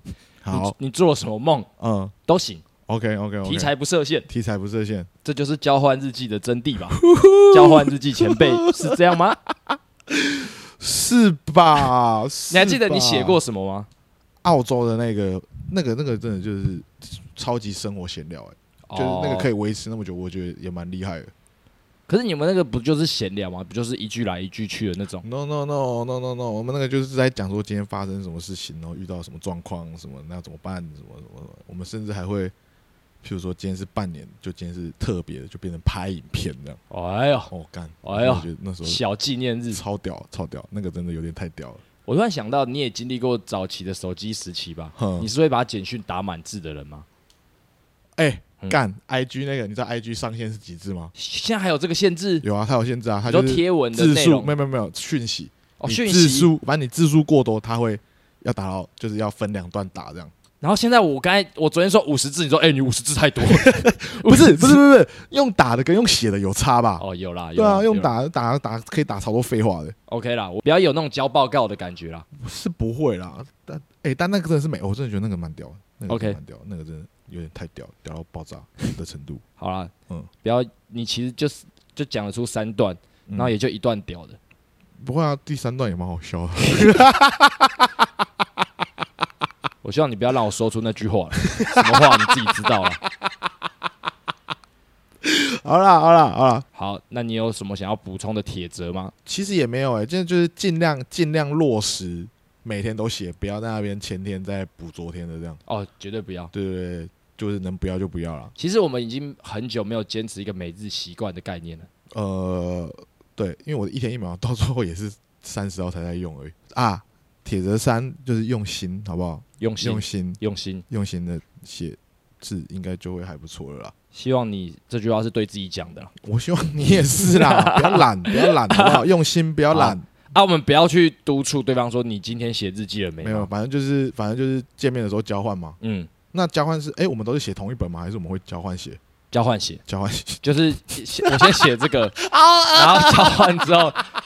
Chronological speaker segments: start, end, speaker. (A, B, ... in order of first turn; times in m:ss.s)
0:00.4-0:00.8 A
0:00.5-0:01.7 B
0:01.8-0:02.1 A
0:02.3-0:02.6 B
0:02.8-0:03.7 A
0:03.4-0:04.3 B
0:04.3-0:05.1 A
0:05.2-0:09.4 B
0:06.9-0:09.2 A
0:09.7-0:13.4 A
0:12.5-0:13.9 B
0:14.4-0:21.3 A
0:18.9-0:19.5 B
0:22.1-0:25.2 B
0:25.2-0:32.5 A
0:33.2-0:36.8 A
0:36.9-0:37.5 B
0:37.5-0:39.0 A
0:38.0-0:39.8 B
0:39.7-0:41.8 A
0:42.0-0:47.0 B
0:45.0-0:45.3 A
0:48.2-0:51.1 A
0:51.2-0:52.4 B
0:52.4-1:00.3 A
0:53.2-0:54.6 B
0:55.8-0:56.5 B
1:00.6-1:04.8 B
1:03.4-1:07.0 A
1:07.0-1:08.1 B
1:07.6-1:09.9 A
1:10.1-1:12.2 B
1:12.4-1:19.4 A
1:16.1-1:16.4 B
1:19.6-1:19.9 B
1:20.4-1:24.4 B
1:23.3-1:23.5 A
1:25.0-1:28.0 A
1:29.8-1:33.0 B
1:31.4-1:32.3 A
1:35.2-1:36.6 A
1:36.7-1:39.1 B
1:39.2-1:45.6 A
1:45.6-1:46.5 B
1:46.5-1:48.5 A
1:48.6-1:51.9 B
1:52.1-2:03.9 A
1:59.6-2:00.8 B
2:04.1-2:06.1 B
2:06.2-2:10.0 A
2:07.3-2:09.0 B
2:09.7-2:13.5 B
2:13.2-2:15.8 A
2:15.8-2:16.1 B
2:16.3-2:19.0 A
2:19.3-2:19.8 B
2:19.9-2:20.4 A
2:20.4-2:22.2 B
2:21.2-2:23.9 A
2:22.7-2:24.0 B